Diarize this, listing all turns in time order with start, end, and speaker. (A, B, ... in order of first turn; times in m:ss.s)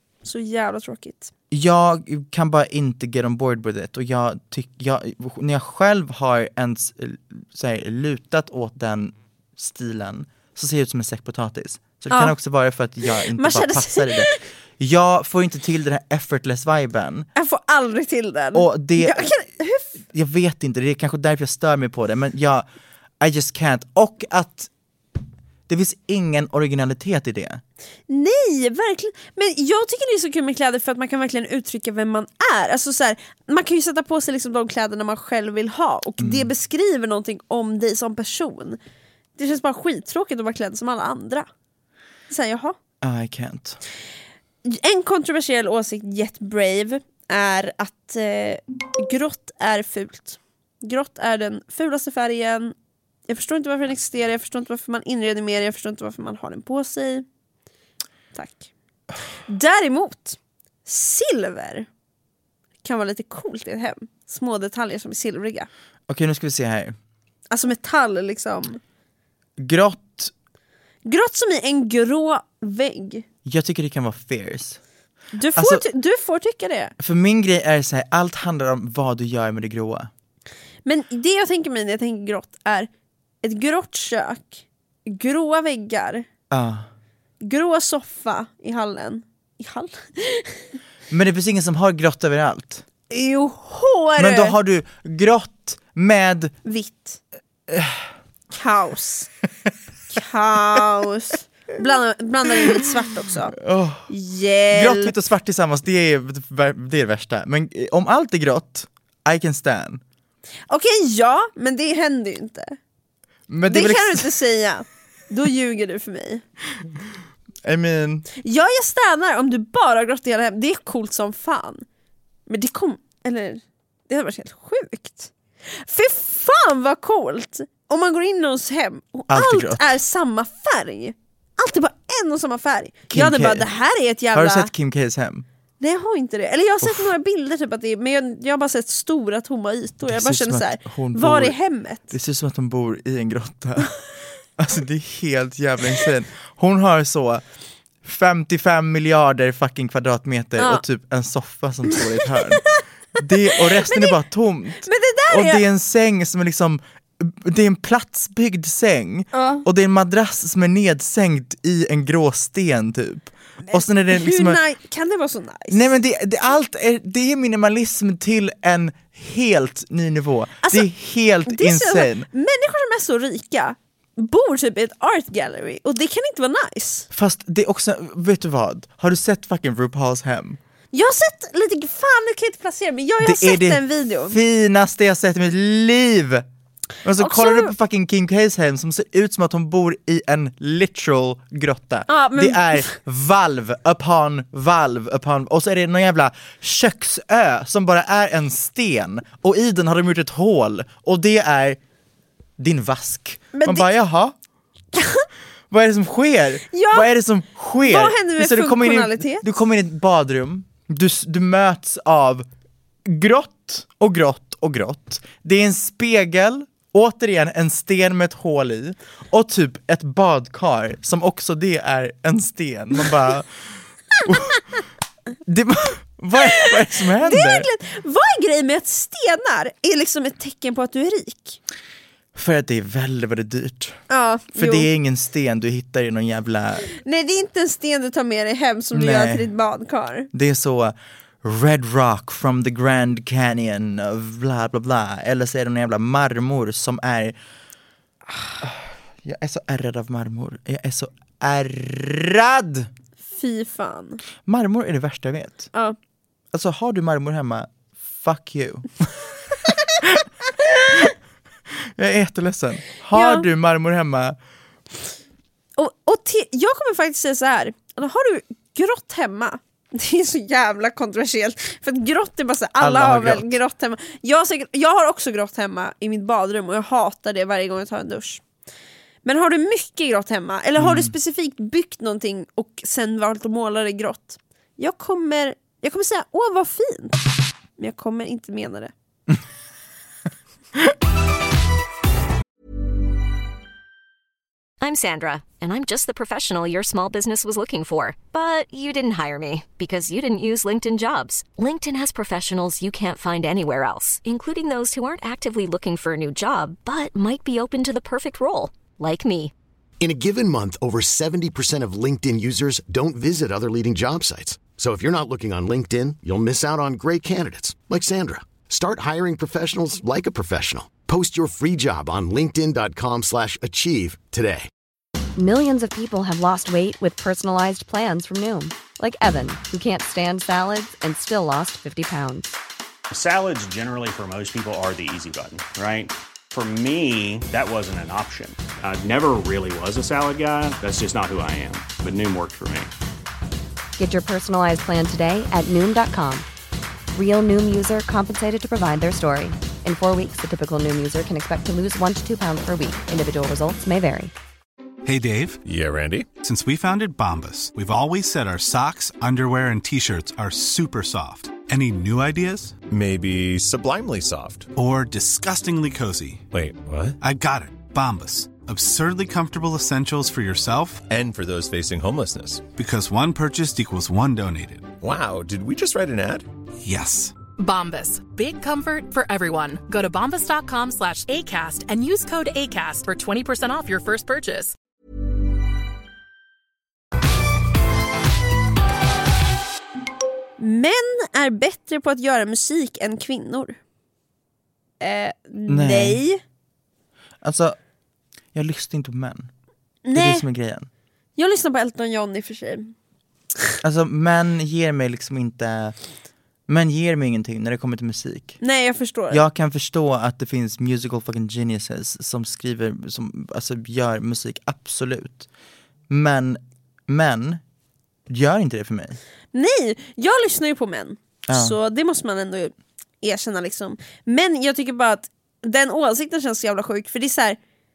0:00.2-0:01.3 A
0:01.5-0:17.3 B
0:12.1-0:12.4 A
0:13.1-0:14.4 A
0:17.4-0:19.9 A
0:18.5-0:19.3 B
0:20.1-0:22.7 B
0:23.2-0:24.7 B
0:25.7-0:27.6 B
0:28.1-0:38.8 A
0:36.2-0:36.5 B
0:39.4-0:41.5 A
0:42.3-0:42.8 A
0:43.0-0:43.8 B
0:44.6-0:52.7 A
0:53.3-0:57.2 A
0:58.3-0:58.7 A
0:59.5-1:01.9 A
1:02.8-1:05.7 A
1:06.1-1:06.9 B
1:07.5-1:08.8 A
1:09.6-1:10.3 B
1:11.0-1:13.2 A
1:13.4-1:14.8 B
1:15.3-1:16.9 A
1:15.5-1:15.8 B
1:17.0-1:20.1 B
1:20.8-1:22.9 A
1:23.4-1:26.3 A
1:26.5-1:26.9 B
1:27.4-1:30.6 A
1:31.1-1:32.8 B
1:33.1-1:34.6 A
1:34.2-1:36.5 B
1:36.6-1:37.2 A
1:37.7-1:38.0 B
1:38.5-1:39.3 A
1:40.1-1:43.6 A
1:43.6-1:44.1 B
1:44.1-1:45.1 A
1:44.7-1:50.0 B
1:50.7-1:52.8 A
1:53.5-1:54.3 B
1:53.7-1:56.4 A
1:57.6-1:58.3 B
1:58.4-2:01.8 A
2:02.5-2:14.7 A
2:09.3-2:10.0 B
2:13.1-2:13.7 B
2:14.3-2:15.4 B
2:15.8-2:22.2 A
2:16.8-2:17.1 B
2:20.0-2:21.6 B
2:22.1-2:23.9 B
2:24.6-2:27.4 B
2:28.0-2:44.6 B
2:30.6-2:30.8 A
2:33.4-2:34.2 A
2:34.8-2:35.6 A
2:39.3-2:39.6 A
2:43.6-2:45.9 A
2:45.7-2:52.3 B
2:50.6-2:50.9 A
2:51.4-2:57.1 A
2:57.1-3:00.6 B
3:00.9-3:04.4 A
3:03.2-3:06.4 B
3:07.0-3:21.8 B
3:07.2-3:07.7 A
3:12.1-3:12.9 A
3:22.6-3:24.3 B
3:23.5-3:23.9 A
3:24.9-3:25.3 A
3:25.7-3:32.4 B
3:26.7-3:27.1 A
3:27.8-3:29.5 A
3:33.0-3:43.5 B
3:44.2-3:44.6 B
3:45.4-3:47.7 B
3:46.4-3:51.6 A
3:52.3-3:54.0 B
3:54.1-3:54.9 A
3:54.6-3:56.9 B
3:56.9-4:00.3 A
3:58.9-3:59.5 B
4:00.3-4:07.4 B
4:08.6-4:12.9 B
4:13.3-4:14.2 A
4:14.4-4:15.7 B
4:16.5-4:19.3 B
4:19.9-4:21.1 B
4:22.0-4:24.4 B
4:23.1-4:23.5 A
4:25.8-4:38.4 A
4:32.8-4:33.6 B
4:39.2-4:47.2 A
4:40.8-4:41.1 B
4:47.8-4:48.9 A
4:54.8-5:09.5 C
5:10.0-5:24.7 D
5:25.4-5:32.5 E
5:33.1-5:42.9 F
5:44.0-5:46.4 E
5:47.1-5:54.3 E
5:55.0-5:55.6 G
5:55.6-5:56.3 H
5:56.4-6:02.8 G
6:02.8-6:04.7 H
6:04.7-6:06.5 G
6:06.5-6:07.2 H
6:07.2-6:11.1 G
6:11.1-6:12.6 H
6:12.7-6:15.0 G
6:15.0-6:16.5 H
6:16.8-6:17.4 G
6:17.6-6:24.8 I
6:30.6-6:33.8 A
6:35.0-6:36.4 A
6:35.7-6:36.2 B
6:37.4-6:37.8 B
6:38.5-6:39.5 B
6:40.0-6:40.4 A
6:40.1-6:40.9 B
6:41.4-6:42.9 A
6:43.8-6:45.9 B
6:46.7-6:48.6 B
6:48.6-6:49.4 A
6:49.3-6:55.5 B
6:56.1-6:57.6 B
6:58.3-6:59.2 B
6:59.5-7:07.6 A
7:01.5-7:01.8 B